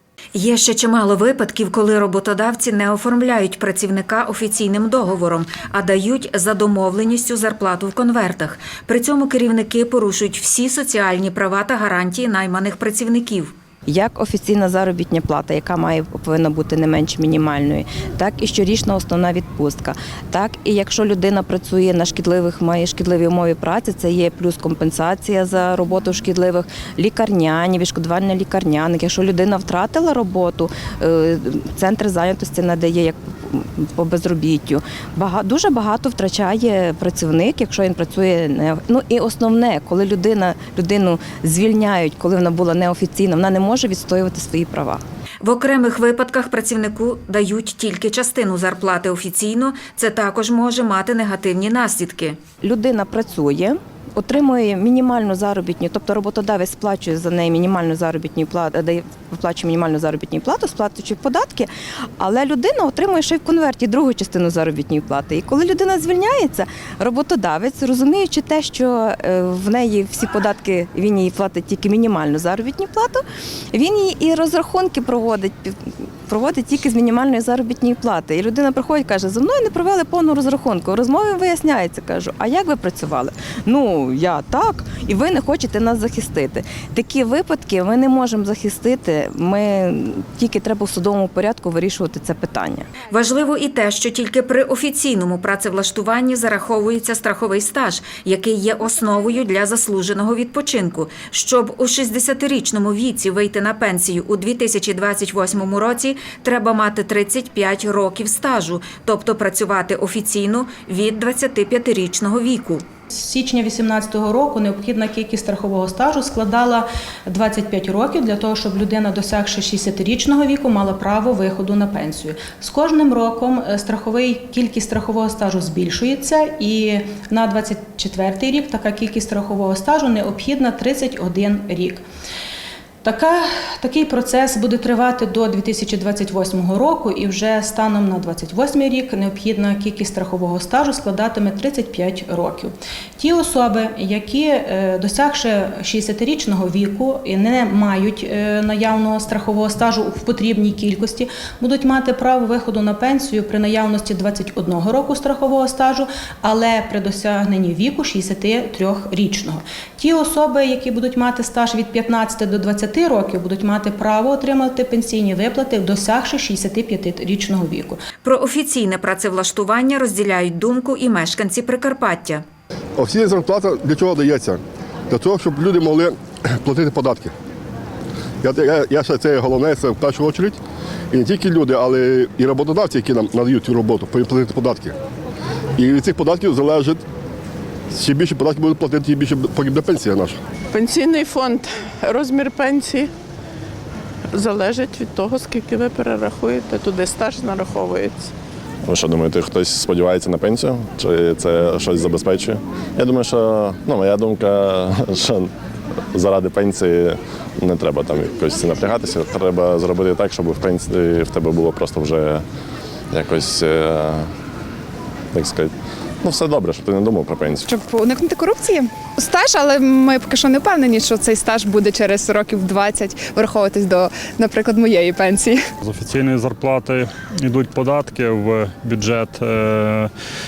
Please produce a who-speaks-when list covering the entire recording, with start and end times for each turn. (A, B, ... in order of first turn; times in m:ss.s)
0:00.3-0:13.5 A
0:13.9-0:45.0 B
0:45.4-0:52.4 A
0:52.6-1:13.2 B
1:13.7-1:32.9 B
1:33.1-1:52.8 A
1:53.1-2:12.0 C
2:13.0-2:48.0 C
2:48.2-2:52.4 A
2:53.0-2:57.3 D
2:58.4-3:00.6 D
3:01.1-3:05.0 D
3:05.8-3:07.0 D
3:07.9-3:10.4 D
3:10.7-3:13.1 E
3:14.3-3:18.3 E
3:18.8-3:25.5 F
3:26.1-3:32.4 F
3:33.1-3:34.3 F
3:35.3-3:35.7 F
3:36.2-3:37.7 F
3:37.7-3:45.6 G
3:45.8-3:50.1 H